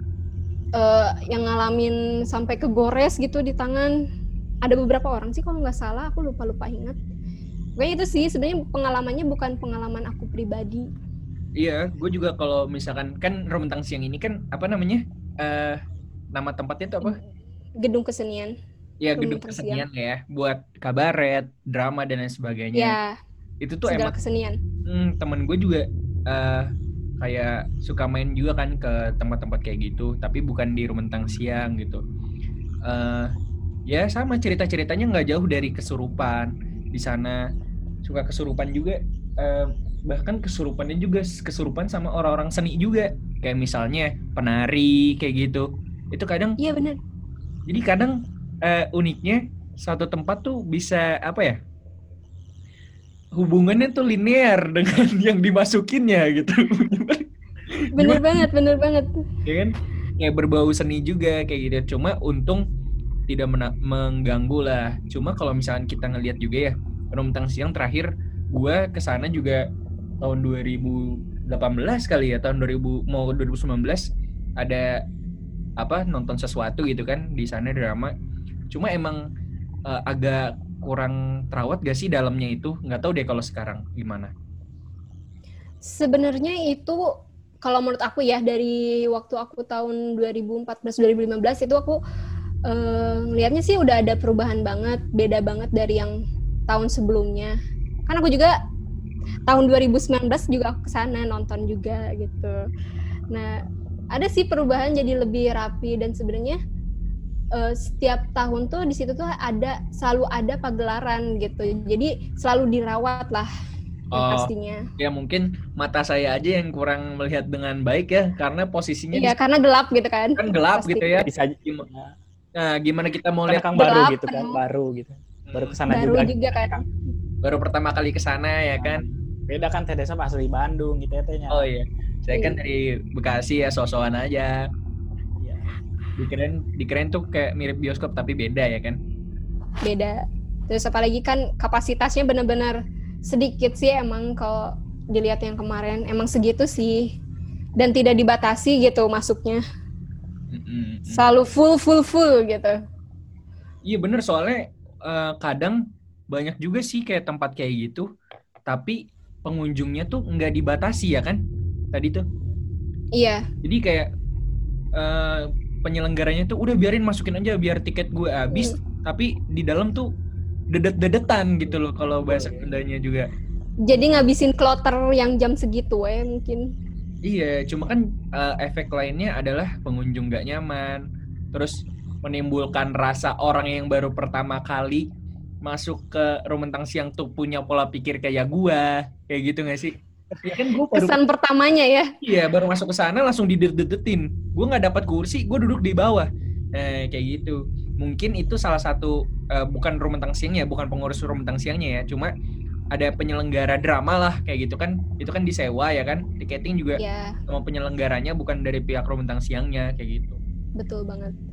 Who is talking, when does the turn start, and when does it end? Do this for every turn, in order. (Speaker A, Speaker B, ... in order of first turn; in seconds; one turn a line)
Speaker A: 0.8-3.9
Speaker A: 4.6-7.0
Speaker A: 7.8-10.9
Speaker B: 11.6-17.2
Speaker A: 17.8-18.6
Speaker B: 19.0-23.0
Speaker A: 19.2-19.9
Speaker A: 22.7-23.2
Speaker B: 23.6-24.2
Speaker A: 23.9-24.6
Speaker B: 24.9-32.0
Speaker B: 32.9-33.3
Speaker B: 33.9-37.4
Speaker B: 38.0-46.6
Speaker A: 46.6-47.0
Speaker B: 47.7-51.6
Speaker B: 53.4-57.3
Speaker B: 57.8-58.5
Speaker A: 58.0-59.2
Speaker B: 59.5-62.6
Speaker B: 63.3-69.6
Speaker B: 70.2-74.1
Speaker B: 74.6-74.9
Speaker B: 75.8-78.1
Speaker B: 78.7-79.2
Speaker B: 79.9-84.3
Speaker A: 85.8-87.0
Speaker A: 87.6-92.0
Speaker A: 92.7-96.1
Speaker A: 96.7-97.5
Speaker A: 98.1-98.5
Speaker A: 99.5-102.6
Speaker A: 104.1-106.6
Speaker A: 107.5-113.5
Speaker B: 114.1-119.4
Speaker A: 114.2-114.8
Speaker A: 119.1-121.1
Speaker B: 120.4-121.9
Speaker C: 121.2-122.2
Speaker B: 122.6-123.8
Speaker C: 123.5-126.8
Speaker A: 123.7-124.6
Speaker B: 125.5-125.8
Speaker A: 125.9-126.8
Speaker B: 127.4-129.0
Speaker C: 128.8-131.7
Speaker B: 131.5-134.6
Speaker C: 135.4-135.7
Speaker B: 136.2-139.0
Speaker A: 139.8-147.1
Speaker A: 147.8-149.6
Speaker B: 150.5-151.3
Speaker A: 151.1-152.7
Speaker B: 153.8-155.8
Speaker B: 156.3-158.1
Speaker B: 158.7-161.4
Speaker B: 161.9-162.2
Speaker A: 163.2-163.4
Speaker B: 163.6-164.1
Speaker B: 165.0-170.1
Speaker A: 168.5-168.8
Speaker B: 170.7-173.3
Speaker C: 171.7-172.8
Speaker A: 173.9-176.7
Speaker B: 177.2-185.1
Speaker B: 185.6-191.2
Speaker A: 190.9-192.1
Speaker B: 192.2-202.3
Speaker B: 202.9-210.4
Speaker A: 207.0-207.4
Speaker A: 210.8-211.4